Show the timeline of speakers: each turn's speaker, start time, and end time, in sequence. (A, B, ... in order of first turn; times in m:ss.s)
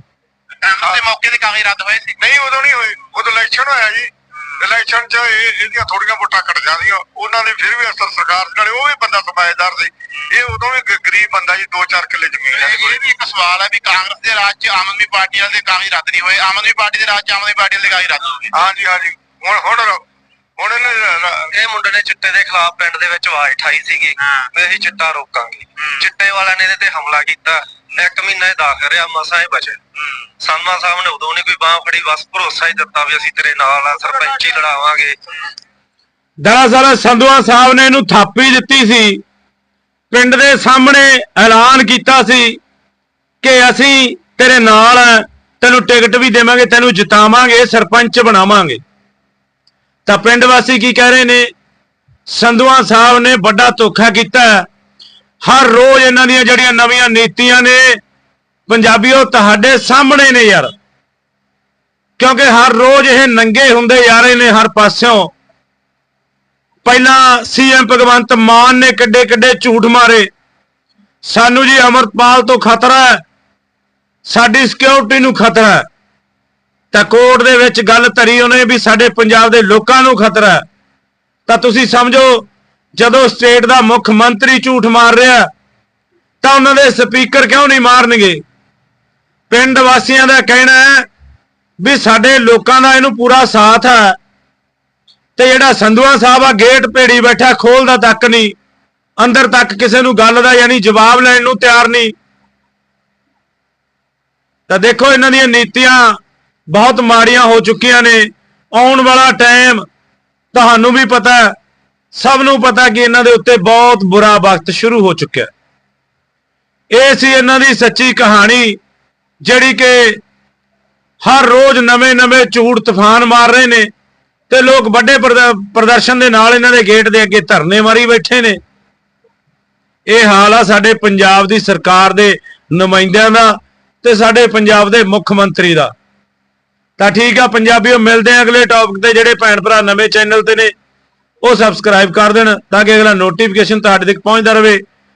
0:00.6-0:02.2 A
0:02.2-0:13.0 B
0:12.5-0:18.6 A
0:18.5-0:20.0 B
0:20.6-0:21.5 B
0:21.5-0:29.8 C
0:30.4-0:35.2 C
0:36.4-0:39.2 D
0:40.1-0:42.6 D
0:43.4-0:48.8 D
0:50.1-0:51.5 D
0:52.3-0:54.7 D
0:55.4-0:58.0 D
0:58.7-1:00.7 D
1:02.2-1:05.3 D
1:06.8-1:10.3 D
1:11.2-1:13.2 D
1:14.2-1:15.9 D
1:16.9-1:20.6 D
1:21.5-1:25.5 D
1:26.4-1:28.4 D
1:29.5-1:31.1 D
1:31.8-1:34.2 D
1:35.4-1:38.5 D
1:39.2-1:42.1 D
1:44.7-1:46.2 D
1:46.7-1:49.8 D
1:50.5-1:51.5 D
1:52.1-1:55.5 D
1:56.9-1:58.8 D
1:59.4-2:00.2 D
2:01.2-2:03.9 D
2:04.5-2:08.6 D
2:10.1-2:15.9 D
2:17.0-2:20.7 D
2:21.4-2:24.8 D